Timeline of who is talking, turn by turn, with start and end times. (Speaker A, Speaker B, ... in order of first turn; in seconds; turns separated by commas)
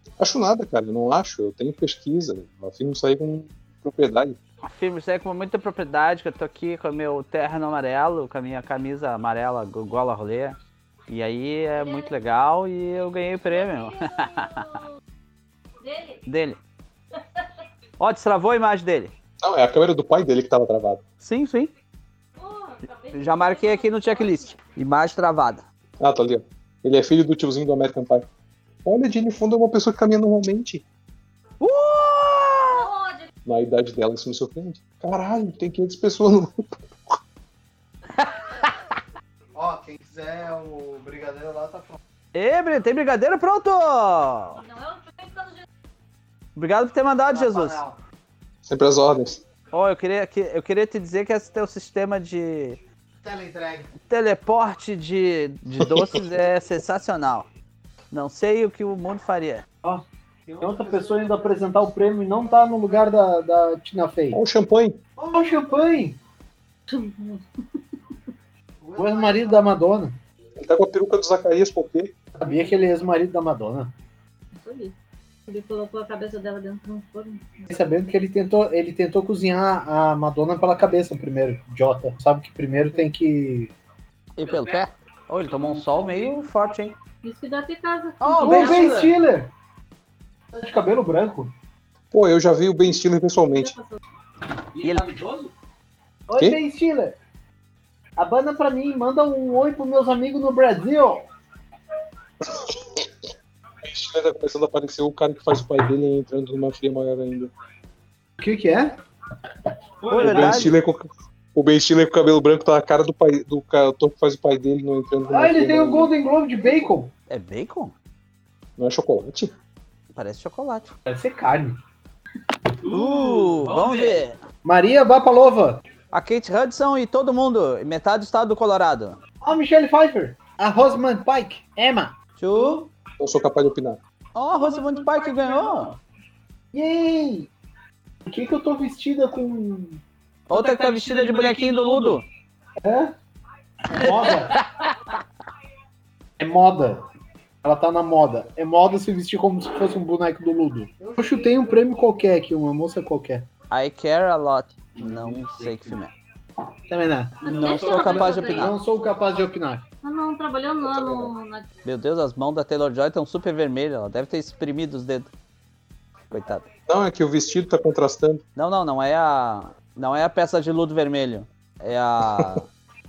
Speaker A: 0.2-4.4, Speaker B: 4.6-10.6, Speaker B: 11.1-14.7, Speaker C: 13.9-14.8, Speaker C: 15.8-16.2, Speaker B: 16.2-16.6, Speaker B: 18.0-19.1, Speaker A: 19.4-21.0, Speaker B: 21.2-21.7, Speaker C: 22.4-24.2, Speaker B: 23.1-25.6, Speaker A: 26.0-28.2, Speaker A: 28.8-30.8, Speaker B: 31.6-32.9, Speaker C: 32.8-33.2, Speaker A: 33.5-36.8, Speaker B: 38.2-38.7, Speaker D: 39.5-42.0, Speaker B: 42.3-44.6, Speaker C: 44.6-45.5, Speaker B: 46.5-47.8, Speaker D: 47.3-48.0, Speaker A: 48.6-49.4, Speaker B: 49.7-52.8, Speaker D: 53.2-53.9, Speaker B: 54.1-57.5, Speaker A: 55.8-56.1, Speaker B: 58.1-59.6, Speaker D: 60.6-64.4, Speaker A: 64.3-65.0, Speaker D: 65.2-66.2, Speaker C: 66.9-67.5, Speaker D: 68.9-70.2, Speaker A: 70.6-72.1, Speaker D: 72.4-73.9, Speaker C: 74.5-74.9, Speaker C: 75.5-77.7, Speaker D: 77.7-83.7, Speaker B: 84.4-86.9, Speaker C: 87.2-89.0, Speaker B: 88.2-89.1, Speaker D: 88.4-89.5, Speaker D: 90.5-91.5, Speaker A: 92.1-93.7, Speaker C: 93.5-94.0, Speaker E: 94.7-95.5, Speaker B: 94.8-95.2, Speaker D: 96.3-97.2, Speaker D: 98.2-101.2, Speaker A: 102.4-103.1, Speaker A: 103.8-107.5, Speaker D: 108.4-109.0, Speaker E: 110.0-110.7, Speaker B: 110.1-110.7, Speaker A: 110.2-116.1, Speaker D: 115.3-117.1, Speaker B: 117.3-117.9, Speaker A: 118.8-119.5, Speaker B: 120.1-120.9, Speaker D: 121.1-121.8, Speaker E: 122.8-124.2, Speaker B: 122.8-124.4, Speaker D: 124.6-125.8, Speaker B: 126.1-129.2, Speaker D: 129.4-132.2, Speaker B: 132.4-132.9, Speaker A: 133.2-134.0, Speaker B: 134.3-135.9, Speaker D: 136.7-137.5, Speaker D: 138.2-140.0, Speaker B: 140.5-142.2, Speaker E: 140.5-142.2, Speaker D: 142.8-143.1, Speaker D: 143.9-144.6, Speaker B: 143.9-144.9, Speaker D: 146.4-147.0, Speaker D: 147.6-153.5, Speaker B: 153.7-156.1, Speaker E: 155.0-156.0, Speaker D: 156.9-159.8, Speaker C: 157.4-158.7, Speaker B: 157.4-158.7, Speaker C: 160.0-161.7, Speaker A: 160.8-161.3, Speaker B: 161.8-165.3, Speaker B: 166.3-166.6, Speaker A: 166.9-168.4, Speaker B: 168.6-172.7